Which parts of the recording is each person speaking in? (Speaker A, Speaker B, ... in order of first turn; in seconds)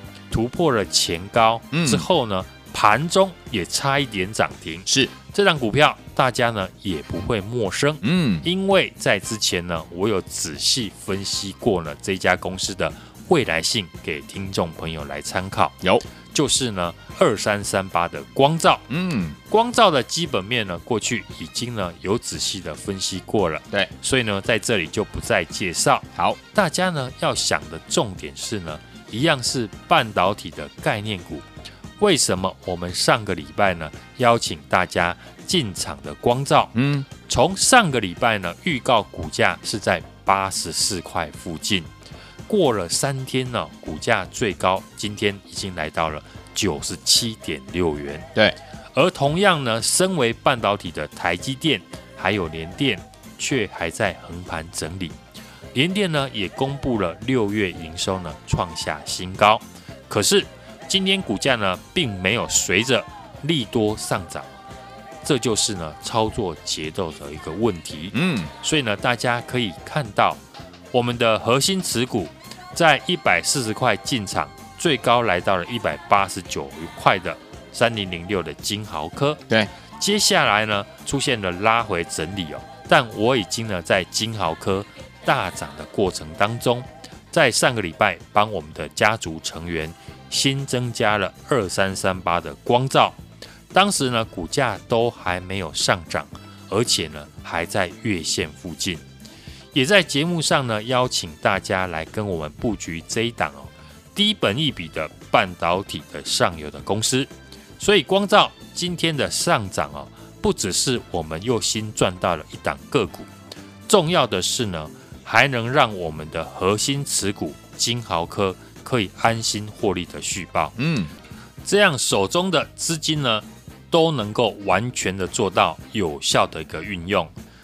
Speaker A: 0.3-15.8, 16.3-18.9, 19.5-31.4, 32.0-41.9, 42.5-48.3, 49.0-55.2, 55.7-64.5, 65.2-70.4, 70.9-79.4, 80.0-93.2, 93.7-99.0, 99.7-113.3, 113.9-120.8, 121.7-127.3
Speaker B: 1.7-2.0, 8.0-8.4, 18.9-19.4, 36.8-37.1, 68.1-68.5, 120.8-121.1